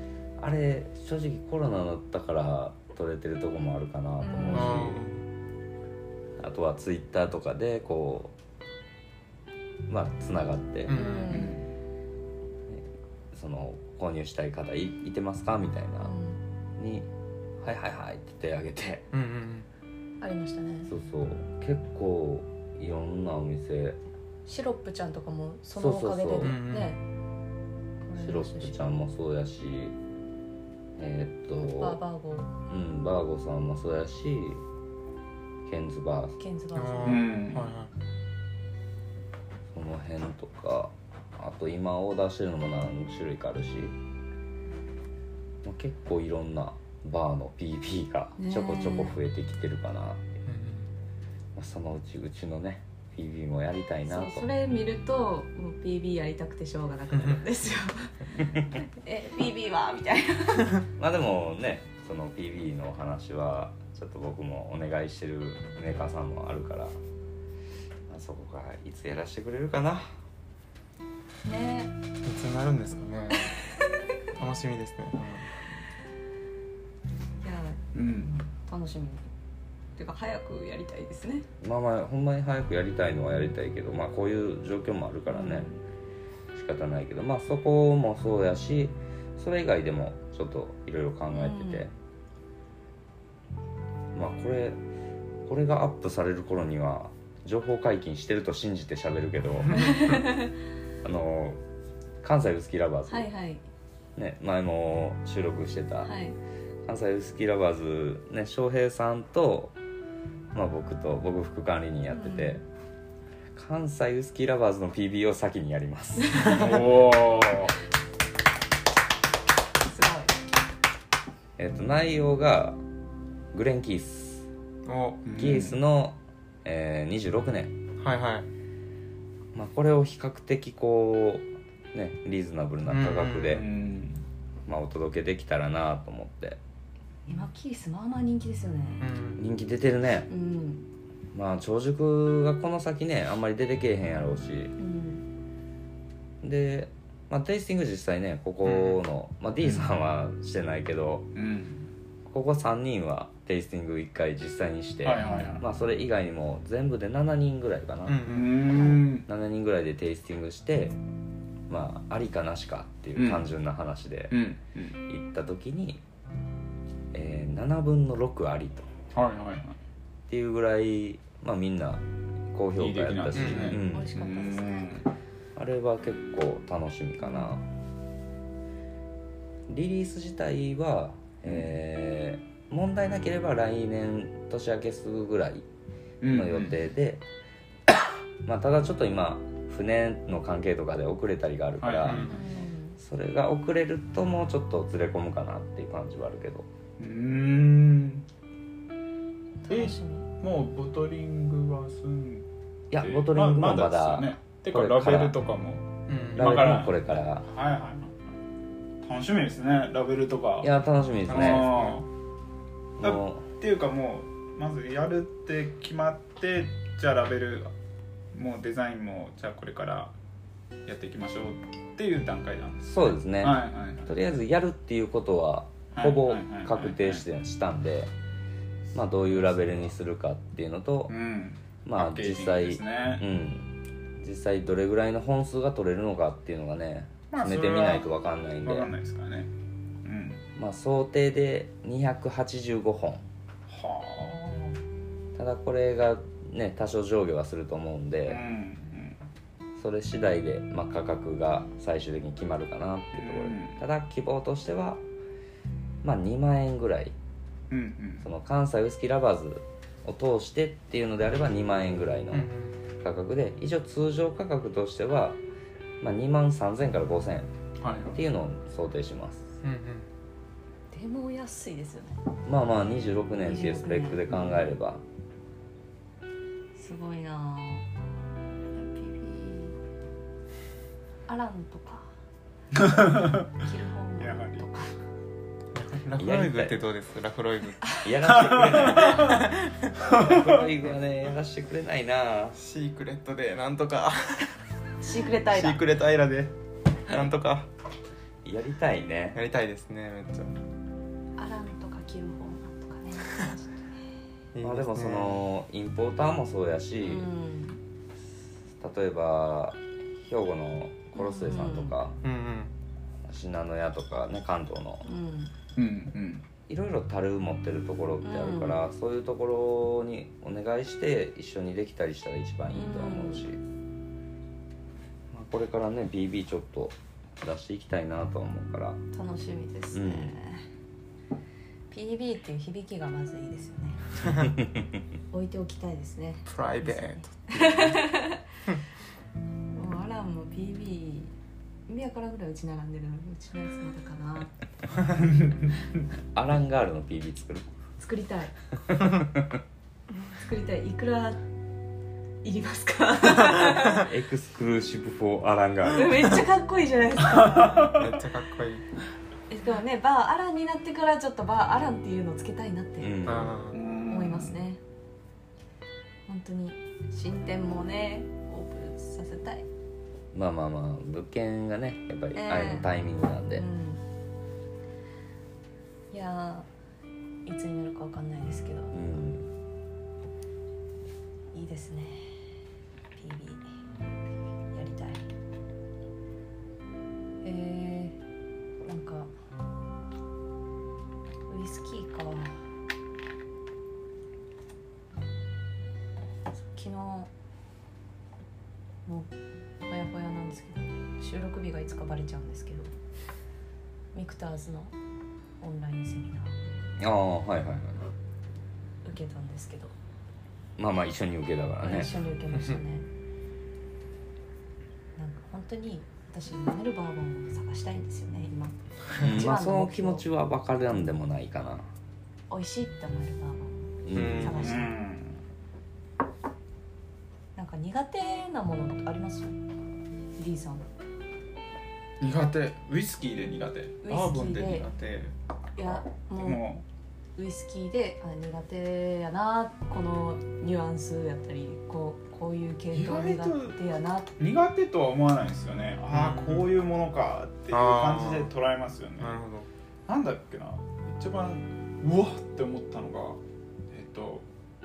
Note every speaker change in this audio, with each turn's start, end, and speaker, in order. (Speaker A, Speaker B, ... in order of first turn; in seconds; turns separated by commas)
Speaker A: 0.4-5.0, Speaker B: 4.2-5.0, Speaker C: 4.5-5.2, Speaker A: 6.4-8.3, Speaker A: 9.9-11.0, Speaker C: 10.9-11.5, Speaker B: 10.9-11.6, Speaker D: 11.3-11.6, Speaker A: 12.7-16.1, Speaker B: 16.0-16.4, Speaker A: 16.8-17.1, Speaker A: 17.6-19.1, Speaker C: 19.1-19.7, Speaker B: 20.2-20.9, Speaker A: 20.9-24.0, Speaker B: 24.5-27.0, Speaker A: 25.7-26.6, Speaker C: 26.4-27.0, Speaker B: 28.1-28.9, Speaker A: 28.2-29.9, Speaker A: 31.0-32.0, Speaker B: 31.6-32.5, Speaker A: 32.7-34.6, Speaker A: 35.7-36.4, Speaker B: 36.4-37.3, Speaker C: 36.8-37.9, Speaker D: 37.0-37.7, Speaker A: 39.7-44.0, Speaker A: 45.6-50.2, Speaker B: 48.4-49.1, Speaker C: 50.5-50.9, Speaker A: 51.6-54.5, Speaker B: 54.1-58.1, Speaker C: 57.1-57.4, Speaker B: 58.7-60.8, Speaker A: 61.0-67.0, Speaker A: 68.1-70.1, Speaker B: 71.5-71.9, Speaker C: 72.2-73.5, Speaker C: 74.4-75.5, Speaker B: 77.4-77.8, Speaker D: 77.9-78.5, Speaker B: 78.7-79.3, Speaker B: 80.0-81.5, Speaker A: 81.6-85.7, Speaker B: 85.3-85.8, Speaker A: 86.5-91.9, Speaker B: 91.3-91.9, Speaker A: 94.1-94.8, Speaker A: 95.5-100.1, Speaker B: 99.7-100.5, Speaker A: 101.0-101.6, Speaker A: 102.2-103.3, Speaker B: 103.1-103.6, Speaker A: 104.2-106.1, Speaker B: 106.0-106.4, Speaker A: 106.9-109.8, Speaker A: 110.5-112.6, Speaker B: 112.1-112.6, Speaker A: 113.5-116.8, Speaker B: 116.2-116.7, Speaker D: 116.5-117.8, Speaker B: 119.8-120.4, Speaker A: 121.6-122.8, Speaker A: 123.5-124.5, Speaker C: 124.8-125.2, Speaker D: 125.2-125.8, Speaker A: 125.4-127.8, Speaker C: 128.0-128.5, Speaker A: 129.5-133.7, Speaker C: 132.9-133.6, Speaker D: 133.5-134.2, Speaker A: 134.7-136.6, Speaker B: 137.3-139.1, Speaker C: 139.0-139.4, Speaker A: 139.4-140.3, Speaker B: 140.3-140.9, Speaker A: 141.3-144.7, Speaker B: 144.8-145.2, Speaker A: 146.4-151.3, Speaker C: 148.7-149.0, Speaker D: 149.6-149.9, Speaker D: 151.3-151.9, Speaker A: 152.3-158.3, Speaker D: 155.0-155.7, Speaker B: 155.2-155.6, Speaker C: 158.1-158.6, Speaker D: 158.3-159.3, Speaker A: 159.2-161.0, Speaker A: 161.7-164.4, Speaker D: 163.2-163.5, Speaker D: 164.3-165.0, Speaker A: 165.1-166.0, Speaker A: 167.1-168.9, Speaker D: 169.1-169.8, Speaker A: 170.3-174.1, Speaker D: 172.8-175.1, Speaker C: 173.3-173.8, Speaker B: 173.7-175.0, Speaker A: 175.6-177.7, Speaker A: 179.7-185.7, Speaker D: 181.4-181.7, Speaker D: 186.2-186.8, Speaker A: 186.3-187.2, Speaker A: 188.4-192.3, Speaker D: 191.8-192.3, Speaker C: 192.0-192.4, Speaker B: 192.2-193.0, Speaker A: 193.0-196.7, Speaker D: 197.0-198.2, Speaker B: 199.6-200.3, Speaker D: 199.7-208.2, Speaker A: 202.9-205.4, Speaker C: 206.1-206.7, Speaker A: 206.3-207.5, Speaker D: 209.0-210.7, Speaker A: 210.6-211.8, Speaker C: 211.3-212.0, Speaker D: 211.3-212.1, Speaker A: 213.0-213.4, Speaker D: 213.0-217.7, Speaker D: 218.3-220.1, Speaker D: 220.9-224.1, Speaker A: 222.8-228.1, Speaker D: 225.9-227.2, Speaker A: 228.9-231.2, Speaker D: 231.1-233.2, Speaker A: 231.8-238.9, Speaker D: 237.3-238.1, Speaker D: 238.6-239.5, Speaker D: 240.0-240.4, Speaker A: 240.6-243.3, Speaker D: 243.7-244.8, Speaker A: 245.3-248.4, Speaker D: 248.3-249.2, Speaker A: 249.8-255.0, Speaker D: 253.1-253.8, Speaker A: 256.0-257.1, Speaker D: 257.7-258.3, Speaker A: 258.2-262.5, Speaker C: 262.3-262.8, Speaker A: 263.0-265.4, Speaker A: 266.0-267.5, Speaker D: 267.8-268.2, Speaker A: 268.1-269.4, Speaker C: 269.6-270.1, Speaker B: 270.9-272.2, Speaker A: 272.4-275.0, Speaker B: 273.4-274.3, Speaker B: 276.8-277.9, Speaker B: 278.7-279.8, Speaker B: 281.3-282.1, Speaker D: 282.8-283.4, Speaker B: 283.5-284.9, Speaker D: 284.2-284.7, Speaker C: 285.7-288.0, Speaker A: 286.2-286.8, Speaker A: 288.0-292.6, Speaker D: 288.3-289.4, Speaker C: 289.1-290.0, Speaker D: 290.1-290.5, Speaker C: 292.6-294.5, Speaker B: 295.0-295.8, Speaker C: 295.4-296.5, Speaker C: 297.1-297.7, Speaker A: 298.4-299.4, Speaker C: 299.3-300.5, Speaker B: 301.4-303.9, Speaker C: 304.5-305.4, Speaker A: 304.6-307.3, Speaker B: 307.0-307.8, Speaker A: 308.8-312.2, Speaker B: 311.1-311.9, Speaker C: 312.2-312.7, Speaker A: 313.3-315.1, Speaker B: 315.0-315.5, Speaker D: 315.8-316.5, Speaker A: 316.7-323.6, Speaker B: 318.2-318.8, Speaker B: 322.7-323.4, Speaker A: 325.3-329.0, Speaker B: 329.1-330.6, Speaker A: 329.9-330.4, Speaker B: 331.9-334.0, Speaker A: 334.4-335.0, Speaker B: 335.3-338.4, Speaker C: 336.5-337.9, Speaker B: 339.7-341.4, Speaker B: 341.9-344.5, Speaker D: 345.2-345.7, Speaker A: 346.3-347.7, Speaker B: 348.0-348.5, Speaker A: 348.9-349.6, Speaker B: 350.3-351.4, Speaker B: 352.4-354.1, Speaker A: 353.8-356.4, Speaker B: 355.9-358.0, Speaker D: 357.6-357.9, Speaker C: 357.8-358.9, Speaker B: 359.5-363.1, Speaker A: 363.0-363.6, Speaker C: 363.2-363.8, Speaker D: 363.7-364.6, Speaker B: 364.1-364.8, Speaker B: 366.3-369.7, Speaker A: 370.3-373.6, Speaker B: 372.3-372.9, Speaker B: 373.5-374.0, Speaker B: 376.1-376.7, Speaker B: 377.4-379.0, Speaker A: 378.9-379.5, Speaker B: 381.5-382.4, Speaker B: 383.2-383.7, Speaker B: 384.7-385.3, Speaker B: 387.4-388.2, Speaker B: 388.8-389.3, Speaker B: 391.5-392.6, Speaker B: 396.6-397.3, Speaker B: 399.1-399.3, Speaker B: 399.9-402.9, Speaker B: 404.1-404.9, Speaker B: 405.6-406.6, Speaker A: 407.0-408.0, Speaker B: 409.0-409.9, Speaker A: 410.8-412.1, Speaker B: 411.8-413.1, Speaker B: 415.2-420.2, Speaker A: 419.2-421.9, Speaker B: 422.5-425.0, Speaker A: 424.0-424.8, Speaker C: 424.1-424.8, Speaker D: 424.6-425.4, Speaker B: 427.6-429.6, Speaker B: 430.4-430.9, Speaker D: 432.2-434.9, Speaker B: 434.0-434.9, Speaker C: 434.6-435.3, Speaker B: 435.8-436.7, Speaker D: 435.8-436.8, Speaker B: 437.4-444.3, Speaker D: 442.9-443.8, Speaker D: 444.4-449.4, Speaker C: 446.1-446.7, Speaker C: 447.7-448.5, Speaker C: 449.2-449.7, Speaker D: 450.1-454.5